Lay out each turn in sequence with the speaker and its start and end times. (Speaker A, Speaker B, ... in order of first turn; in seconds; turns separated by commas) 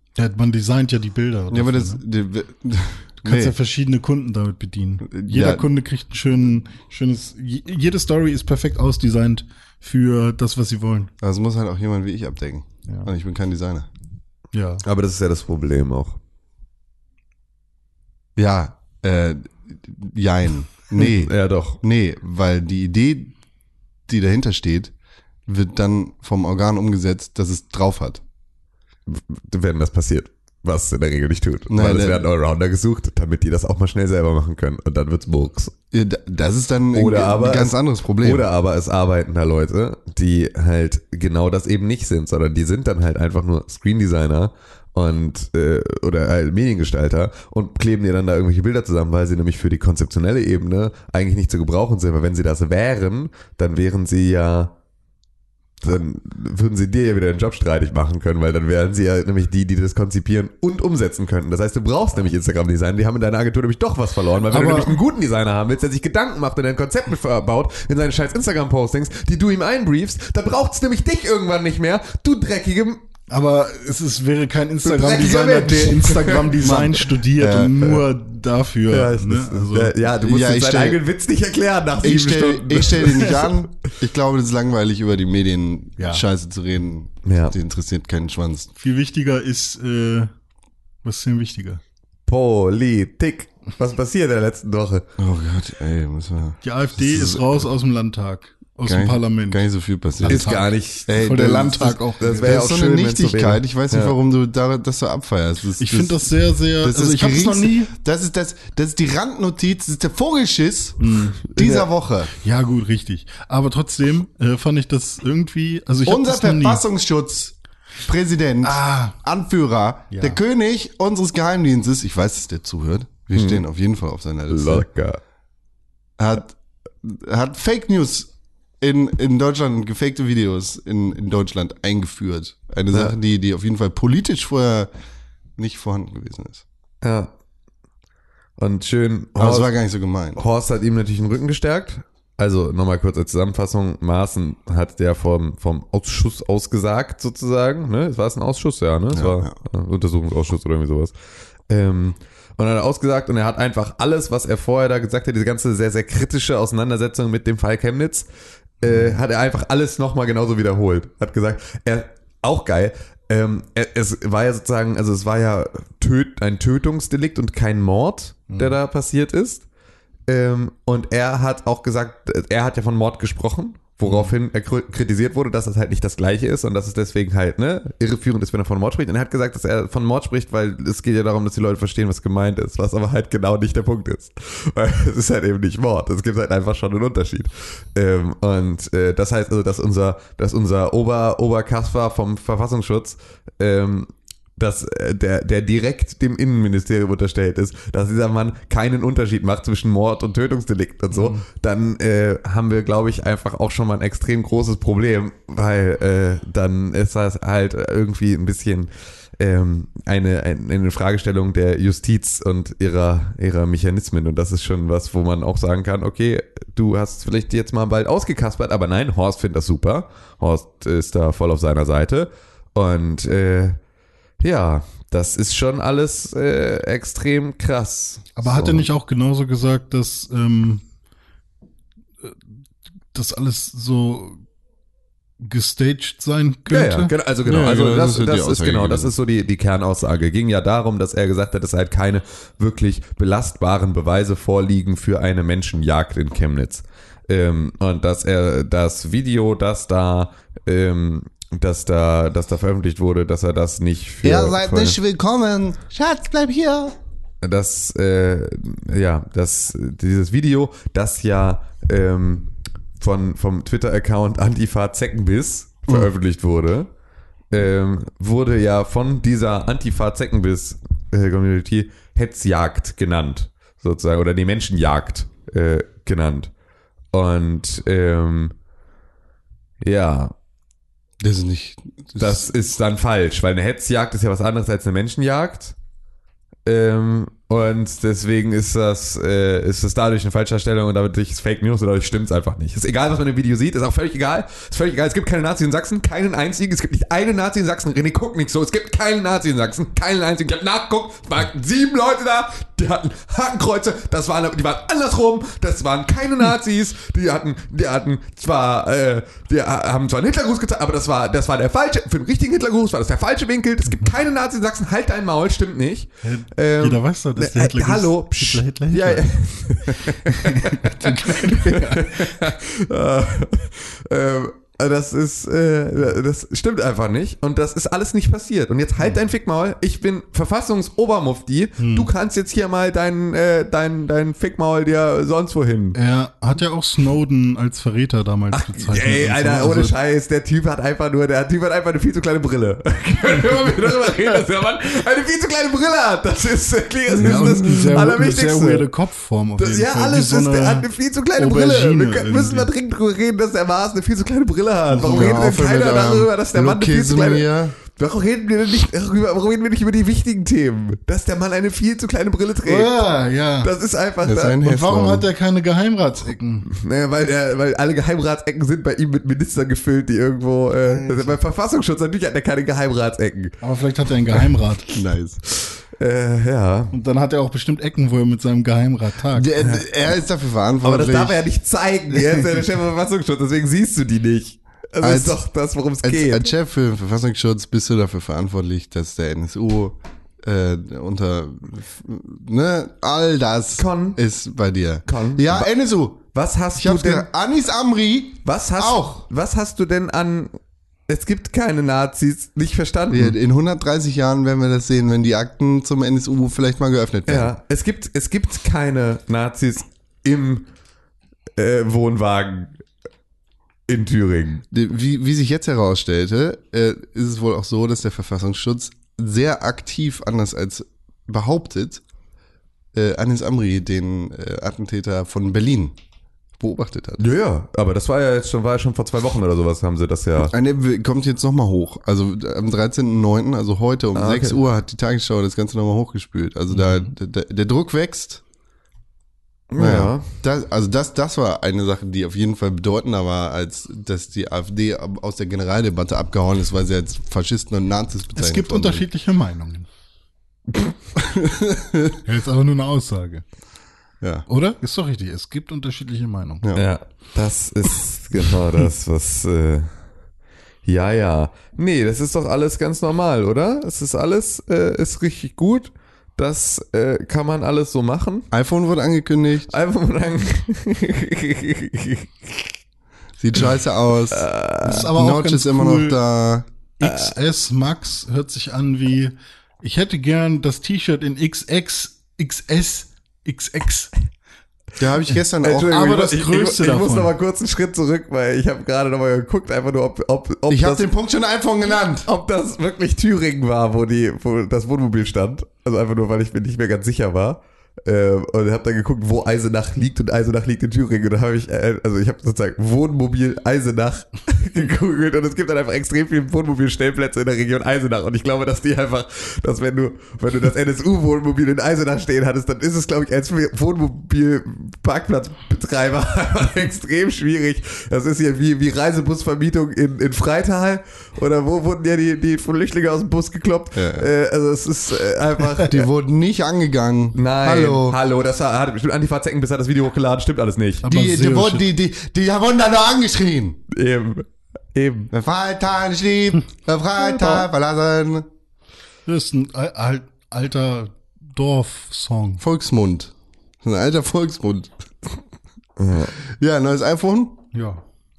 Speaker A: 0.2-2.0, Speaker B: 1.5-3.5, Speaker A: 3.2-11.1, Speaker B: 5.1-5.7, Speaker B: 11.2-13.9, Speaker A: 14.5-14.8, Speaker C: 14.8-16.2, Speaker B: 18.4-23.3, Speaker C: 21.0-21.8, Speaker B: 24.1-24.9, Speaker B: 25.5-28.2, Speaker C: 29.1-35.7, Speaker B: 31.7-32.2, Speaker B: 35.9-38.5, Speaker C: 36.9-54.7, Speaker C: 55.8-73.0, Speaker A: 64.5-65.0, Speaker A: 73.3-79.9, Speaker C: 74.8-76.9, Speaker B: 76.6-77.9, Speaker C: 78.9-83.5, Speaker B: 80.2-81.0, Speaker B: 82.0-88.7, Speaker A: 86.0-86.2, Speaker C: 87.2-87.5, Speaker A: 88.8-90.3, Speaker A: 91.0-91.8, Speaker C: 92.2-95.0, Speaker B: 95.2-97.6, Speaker A: 96.6-99.6, Speaker B: 98.8-112.3, Speaker A: 100.2-102.6, Speaker C: 100.3-101.1, Speaker C: 102.2-104.2, Speaker A: 105.8-107.9, Speaker A: 111.0-111.4, Speaker C: 111.5-111.9, Speaker A: 112.4-116.8, Speaker B: 116.0-124.8, Speaker A: 118.6-119.2, Speaker A: 120.1-120.4, Speaker C: 123.3-123.6, Speaker C: 124.5-125.2, Speaker B: 126.2-128.3, Speaker B: 128.8-134.9, Speaker B: 135.6-136.6, Speaker C: 137.0-137.3, Speaker C: 138.6-139.7, Speaker B: 139.4-140.4, Speaker C: 140.3-151.1, Speaker B: 149.1-149.5, Speaker C: 151.7-158.3, Speaker C: 158.8-169.6, Speaker A: 168.5-168.7, Speaker C: 170.3-223.8, Speaker A: 174.0-174.3, Speaker A: 201.1-201.4, Speaker C: 224.4-228.8, Speaker A: 228.4-230.8, Speaker A: 233.1-234.4, Speaker A: 235.4-237.1, Speaker C: 236.7-255.0, Speaker B: 237.4-239.1, Speaker B: 254.2-256.9, Speaker C: 257.4-266.9, Speaker C: 267.5-276.5, Speaker C: 277.1-278.5, Speaker C: 279.8-280.3, Speaker B: 281.2-282.5, Speaker C: 282.2-285.8, Speaker C: 286.6-336.0, Speaker A: 316.2-319.3, Speaker A: 319.9-322.4, Speaker A: 331.8-332.1, Speaker A: 335.9-339.9, Speaker C: 338.5-348.9, Speaker A: 347.1-352.7, Speaker C: 349.6-363.0, Speaker A: 354.9-355.4, Speaker B: 355.0-357.8, Speaker A: 362.6-363.7, Speaker C: 363.6-364.6, Speaker B: 364.2-365.3, Speaker A: 364.6-366.7, Speaker C: 366.7-373.6, Speaker B: 370.9-371.4, Speaker A: 373.6-375.0, Speaker B: 374.9-375.4, Speaker C: 375.8-376.9, Speaker A: 376.9-379.5, Speaker B: 379.3-381.4, Speaker C: 379.6-380.1, Speaker C: 380.8-386.5, Speaker B: 385.0-385.4, Speaker B: 386.0-399.1, Speaker C: 393.8-394.2, Speaker C: 395.1-395.7, Speaker C: 396.3-397.3, Speaker C: 398.4-400.5, Speaker C: 401.1-403.4, Speaker B: 403.1-407.5, Speaker C: 407.2-410.7, Speaker C: 411.6-412.8, Speaker C: 413.9-414.6, Speaker B: 414.7-422.0, Speaker B: 422.9-425.9, Speaker B: 426.6-427.3, Speaker C: 427.2-430.5, Speaker B: 430.4-438.4, Speaker C: 434.1-434.6, Speaker C: 439.7-440.2, Speaker B: 439.8-449.0, Speaker A: 448.3-449.9, Speaker B: 451.1-452.2, Speaker A: 452.2-453.4, Speaker B: 454.2-454.4, Speaker A: 454.5-456.6, Speaker C: 456.7-459.9, Speaker C: 460.8-468.5, Speaker B: 468.5-469.7, Speaker C: 469.7-472.7, Speaker B: 473.4-476.6, Speaker C: 474.3-475.1, Speaker A: 474.8-476.2, Speaker A: 477.0-484.1, Speaker C: 477.0-477.3, Speaker B: 485.0-486.1, Speaker C: 485.6-491.1, Speaker A: 485.7-487.3, Speaker B: 490.7-492.3, Speaker C: 491.9-526.1, Speaker B: 523.9-524.3, Speaker B: 525.8-528.2, Speaker C: 527.3-531.1, Speaker A: 531.0-531.8, Speaker B: 531.0-533.8, Speaker C: 533.9-535.3, Speaker B: 535.3-538.5, Speaker C: 537.3-537.6, Speaker A: 539.2-542.6, Speaker B: 542.6-543.3, Speaker B: 543.8-545.4, Speaker C: 546.0-546.3, Speaker B: 546.3-547.7, Speaker A: 547.7-548.0